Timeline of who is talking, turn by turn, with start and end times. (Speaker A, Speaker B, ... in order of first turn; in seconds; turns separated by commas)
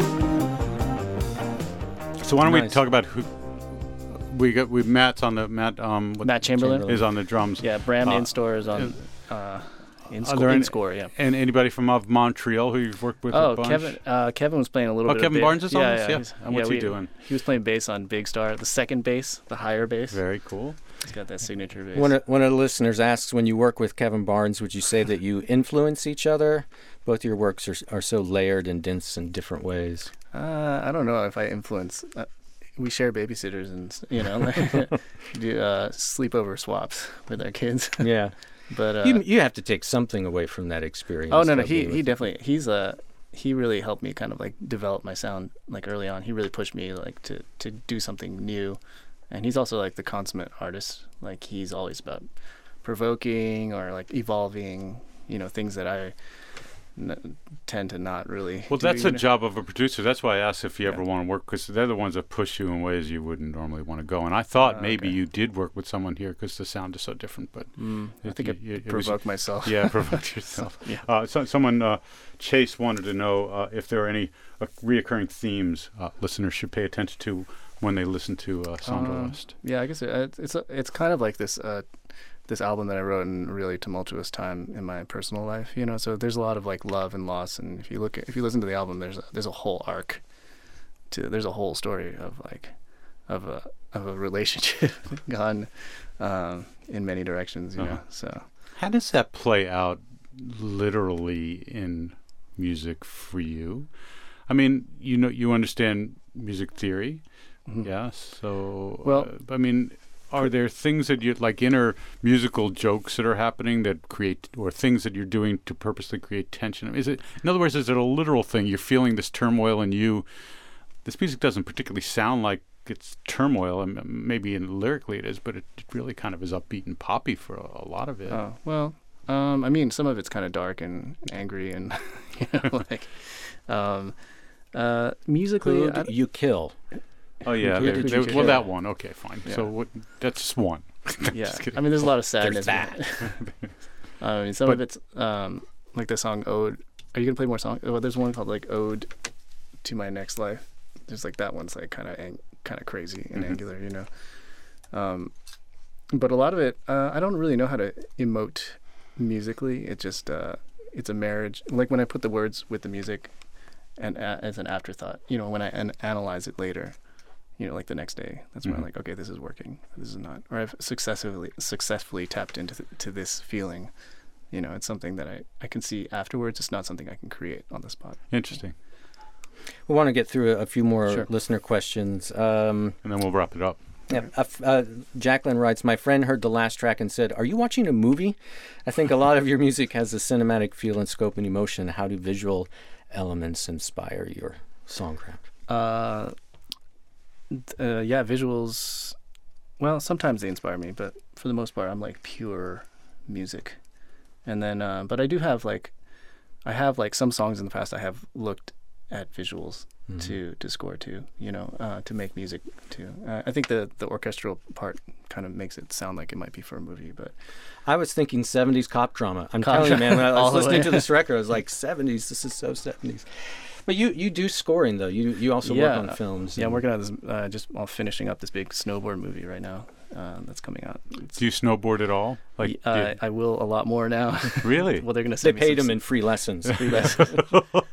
Speaker A: 2.2-9.0, Speaker B: 2.4-2.8, Speaker C: 6.2-11.1, Speaker B: 6.6-7.1, Speaker A: 10.2-14.0, Speaker C: 13.3-20.2, Speaker A: 15.1-17.1, Speaker A: 20.1-20.8, Speaker C: 21.0-22.2, Speaker B: 21.9-30.1, Speaker C: 30.3-38.1, Speaker B: 38.0-38.3, Speaker C: 38.7-39.2, Speaker B: 39.0-42.0, Speaker C: 41.3-48.8, Speaker C: 49.3-52.3, Speaker C: 52.8-56.1, Speaker C: 56.9-59.2, Speaker A: 58.7-79.5, Speaker C: 64.6-65.2, Speaker C: 67.8-71.0, Speaker C: 78.8-81.9, Speaker C: 82.5-90.2, Speaker C: 91.1-92.7, Speaker C: 93.3-98.4, Speaker A: 98.8-103.9, Speaker A: 104.5-120.2, Speaker C: 109.0-109.3, Speaker A: 121.0-128.4, Speaker C: 128.3-134.1, Speaker C: 134.7-136.1, Speaker B: 135.6-136.8, Speaker A: 137.4-143.5, Speaker C: 137.6-138.7, Speaker B: 137.7-138.6, Speaker C: 141.3-143.5, Speaker C: 144.2-149.1, Speaker C: 149.8-154.1, Speaker C: 154.9-155.3, Speaker C: 156.1-163.3, Speaker C: 164.0-167.0, Speaker C: 167.6-173.9, Speaker C: 174.5-178.3, Speaker A: 178.3-178.7, Speaker B: 179.9-183.0, Speaker A: 183.0-183.8, Speaker B: 184.1-195.4, Speaker C: 195.7-196.3, Speaker C: 197.5-199.2, Speaker C: 199.8-203.8, Speaker C: 204.4-205.9, Speaker C: 206.6-217.3, Speaker B: 217.8-226.8, Speaker C: 219.6-221.1, Speaker C: 225.6-231.4, Speaker A: 231.3-233.2, Speaker C: 232.6-236.1, Speaker A: 234.6-235.1, Speaker B: 235.4-237.2, Speaker C: 236.6-237.6